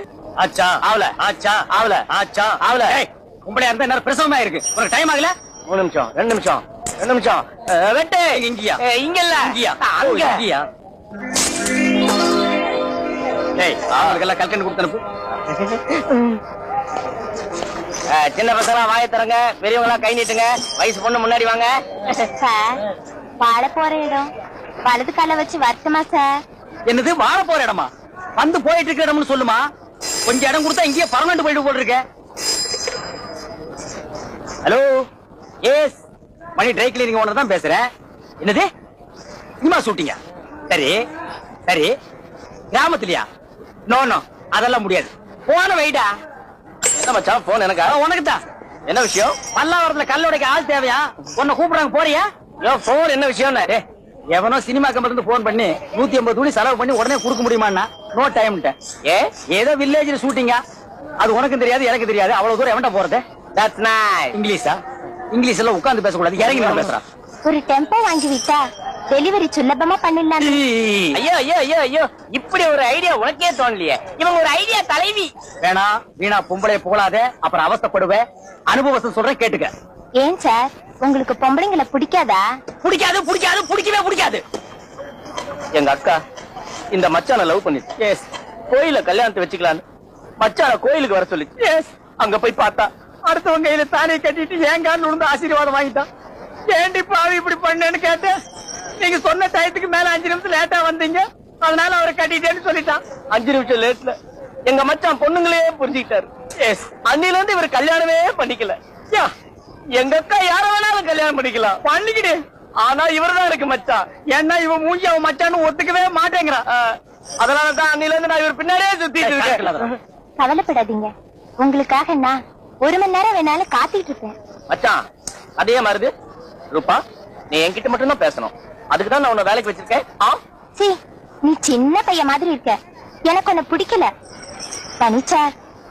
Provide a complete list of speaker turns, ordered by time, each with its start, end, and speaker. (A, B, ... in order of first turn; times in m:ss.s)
0:00.4-0:05.3 A
0:00.9-0:01.1 B
0:01.7-0:03.0 B
0:05.7-0:10.4 B
0:08.3-0:08.8 A
0:09.4-0:10.7 A
0:13.6-0:15.0 A
0:13.9-0:14.2 B
0:15.9-0:16.3 B
0:18.1-0:22.1 B
0:22.4-0:22.8 C
0:23.4-0:24.3 C
0:24.8-0:26.4 C
0:26.9-0:29.6 A
0:30.3-0:32.0 A
0:34.6-0:35.1 A
0:35.6-0:36.0 A
0:36.6-0:37.9 A
0:38.4-0:38.7 A
0:39.6-0:41.0 A
0:41.7-0:41.9 A
0:42.7-0:43.3 A
0:43.9-0:46.1 A
0:47.0-0:48.0 B
0:47.8-0:48.4 A
0:48.9-0:49.4 B
0:49.5-0:52.3 A
0:52.6-0:53.8 B
0:54.3-0:58.8 A
0:59.1-0:59.3 B
0:59.5-1:00.6 A
1:01.2-1:03.2 A
1:03.6-1:04.4 B
1:04.3-1:04.8 A
1:05.3-1:07.0 A
1:06.5-1:06.9 B
1:07.5-1:10.6 C
1:10.4-1:11.2 A
1:11.1-1:15.3 B
1:15.6-1:19.7 A
1:20.2-1:22.4 C
1:22.8-1:24.4 A
1:25.8-1:26.2 B
1:26.9-1:27.9 B
1:28.0-1:28.3 A
1:28.7-1:29.8 B
1:30.4-1:31.6 B
1:31.6-1:31.9 A
1:32.2-1:32.9 B
1:33.3-1:36.1 A
1:36.7-1:38.4 A
1:39.0-1:43.0 A
1:43.3-1:49.3 B
1:49.9-1:51.8 B
1:51.8-1:52.4 A
1:52.8-1:54.1 B
1:54.3-1:56.6 A
1:56.7-2:00.0 B
1:59.2-1:59.9 A
2:00.4-2:04.4 C
2:04.7-2:05.0 B
2:05.6-2:06.1 B
2:06.7-2:10.4 B
2:10.8-2:14.1 C
2:15.0-2:15.5 C